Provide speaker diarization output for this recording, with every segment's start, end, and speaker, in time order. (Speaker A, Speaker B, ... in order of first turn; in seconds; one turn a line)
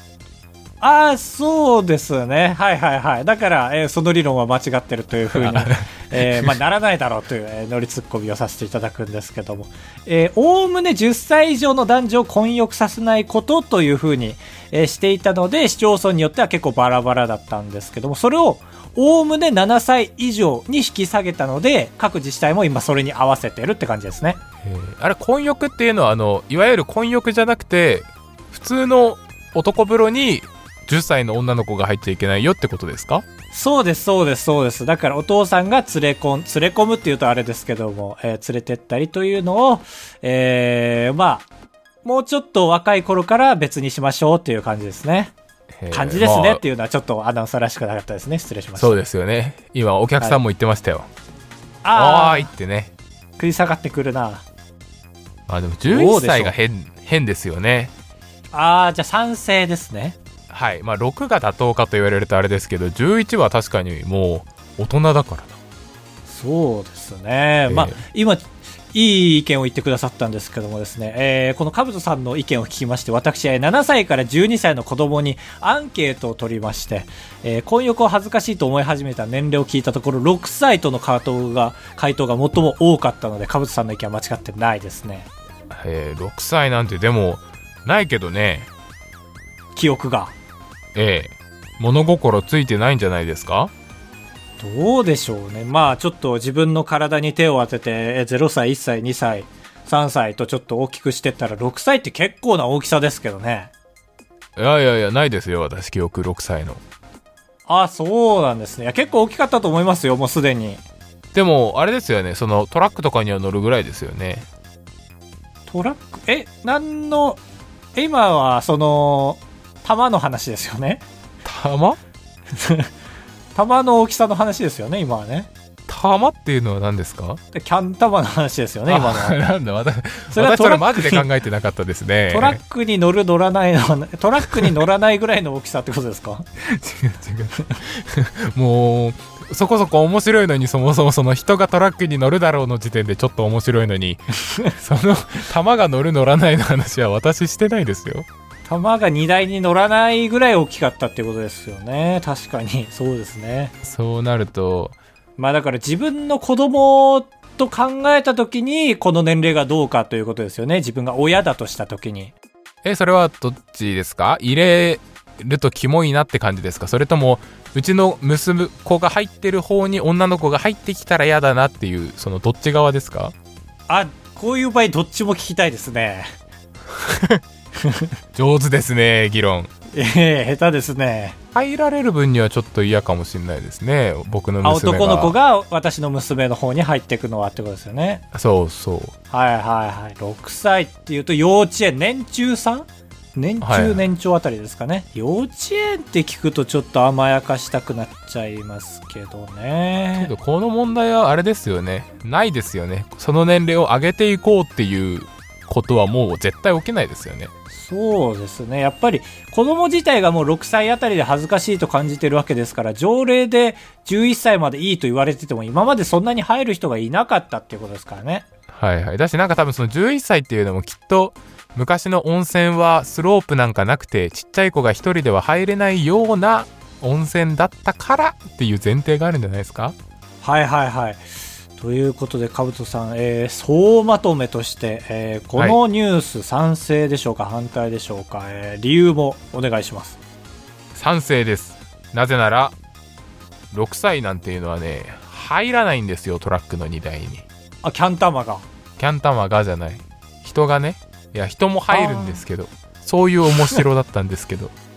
Speaker A: 0.8-24.4
Speaker B: 5.3-6.5
Speaker B: 24.6-33.2
Speaker A: 33.5-41.5
Speaker A: 42.0-45.3
Speaker B: 45.8-46.6
Speaker A: 45.9-49.0
Speaker B: 48.8-51.1
Speaker A: 51.8-52.5
Speaker B: 51.9-52.9
Speaker A: 53.4-54.4
Speaker B: 55.5-57.9
Speaker A: 55.9-56.5
Speaker A: 58.5-60.2
Speaker B: 60.5-65.6
Speaker A: 66.3-85.3
Speaker B: 67.7-68.0
Speaker B: 85.7-88.7
Speaker A: 89.7-90.3
Speaker B: 90.9-93.7
Speaker A: 94.6-103.7
Speaker B: 104.6-106.8
Speaker A: 107.7-110.8
Speaker B: 111.3-114.5
Speaker A: 115.7-117.4
Speaker A: 118.0-121.0
Speaker B: 121.4-122.0
Speaker A: 122.5-122.9
Speaker A: 123.5-125.5
Speaker B: 125.9-127.4
Speaker A: 127.5-129.4
Speaker B: 128.9-132.6
Speaker A: 130.3-131.3
Speaker A: 132.3-136.4
Speaker B: 136.6-148.3
Speaker A: 148.7-153.7
Speaker B: 153.8-154.9
Speaker A: 155.4-162.3
Speaker B: 162.8-173.3
Speaker A: 173.9-176.3
Speaker B: 177.1-177.3
Speaker A: 177.8-178.1
Speaker B: 178.3-179.7
Speaker A: 179.9-181.4
Speaker B: 181.5-185.3
Speaker A: 184.6-188.2
Speaker B: 188.3-189.1
Speaker A: 189.3-200.3
Speaker B: 193.6-194.0
Speaker B: 200.2-207.5
Speaker A: 207.7-218.5
Speaker B: 218.7-229.9
Speaker A: 230.4-231.2
Speaker A: 231.8-240.2
Speaker B: 240.9-242.7
Speaker B: 243.7-247.4
Speaker A: 247.8-248.7
Speaker B: 249.0-254.7
Speaker A: 251.9-252.4